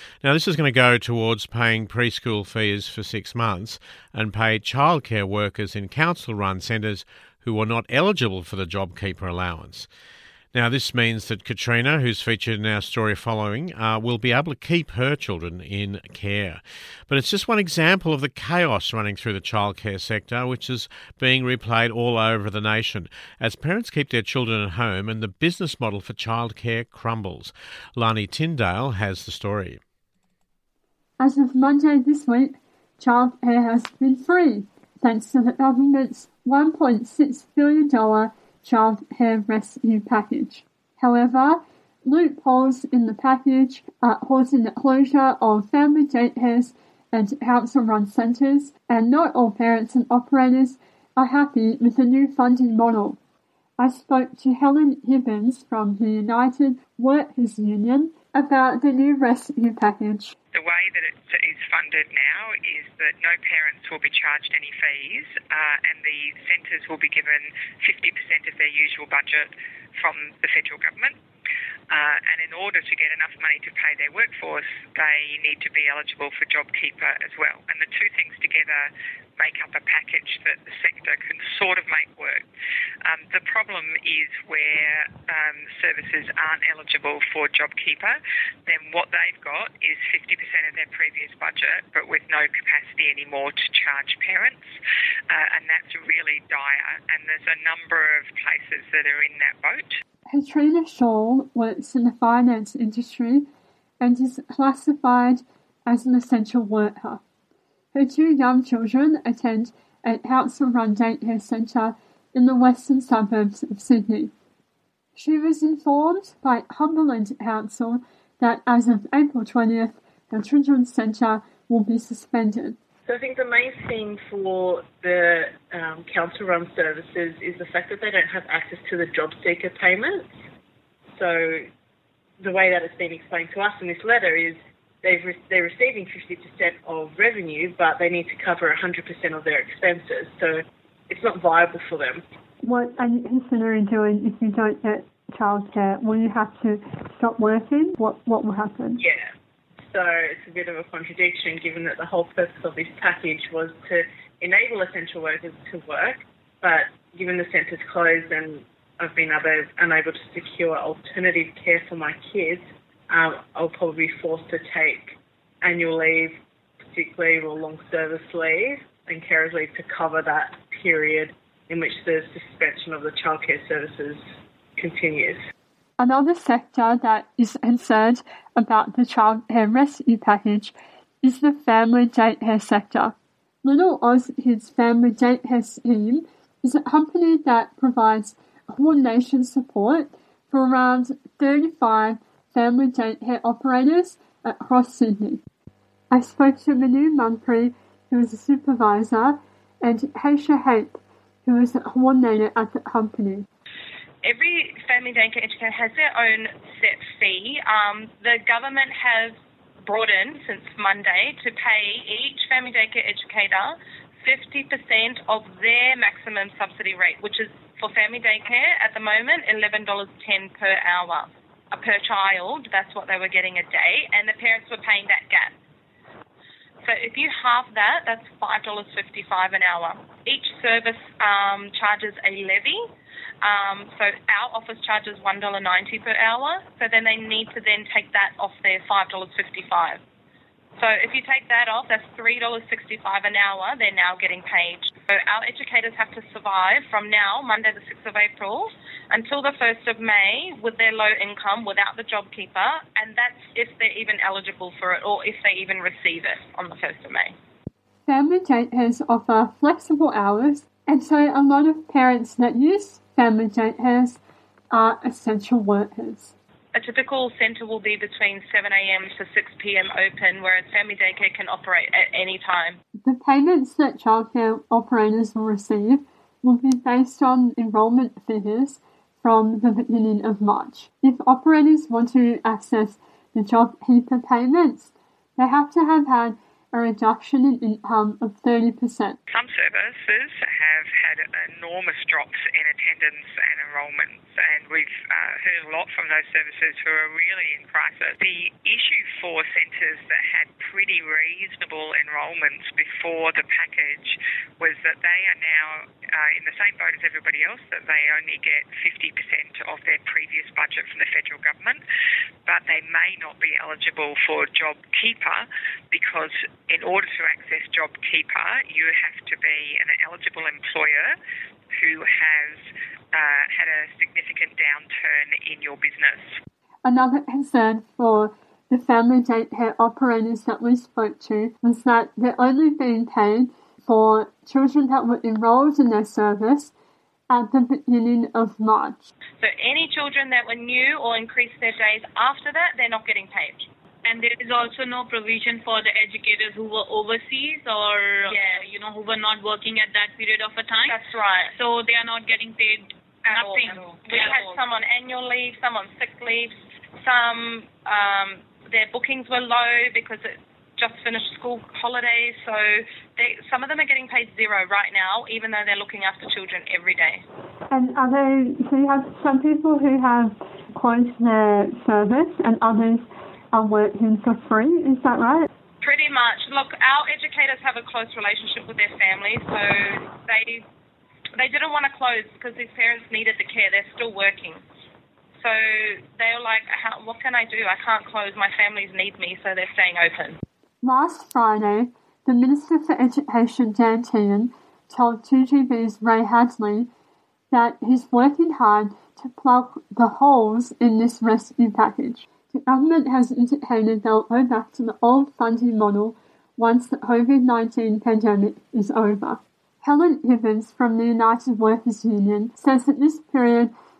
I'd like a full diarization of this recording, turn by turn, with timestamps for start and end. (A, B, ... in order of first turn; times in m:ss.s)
0:00.2-0:09.9 A
0:10.5-0:29.8 A
0:31.2-0:53.2 B
0:53.8-1:00.3 B
1:00.5-1:11.2 C
1:11.9-1:22.5 C
1:23.0-1:34.7 C
1:35.3-1:40.0 C
1:40.3-1:43.5 B
1:44.0-1:47.2 B
1:47.9-1:54.3 B
1:55.2-2:02.8 B
2:03.0-2:10.3 D
2:11.1-2:11.7 D
2:12.4-2:22.2 D
2:22.6-2:29.0 B
2:29.0-2:29.3 D
2:29.9-2:46.4 D
2:46.9-2:54.2 D
2:54.8-2:55.4 D
2:56.0-3:15.4 B
3:16.1-3:23.5 B
3:24.2-3:45.5 E
3:46.8-3:52.9 E
3:53.4-4:00.0 E
4:00.8-4:17.3 E
4:18.1-4:24.2 B
4:24.7-4:26.3 B
4:26.7-4:32.8 E
4:33.0-4:49.2 B
4:49.3-5:11.8 C
5:12.4-5:21.2 C
5:21.7-5:26.4 C
5:26.8-5:36.7 B
5:37.3-5:39.1 B
5:39.4-5:43.7 E
5:44.0-5:51.0 F
5:48.3-5:48.6 E
5:50.9-5:51.5 E
5:51.5-5:54.6 F
5:53.3-6:07.2 E
6:07.7-6:15.5 B
6:15.8-6:20.6 E
6:21.3-6:24.6 E
6:25.4-6:30.4 E
6:30.8-6:36.9 B
6:37.5-6:53.7 B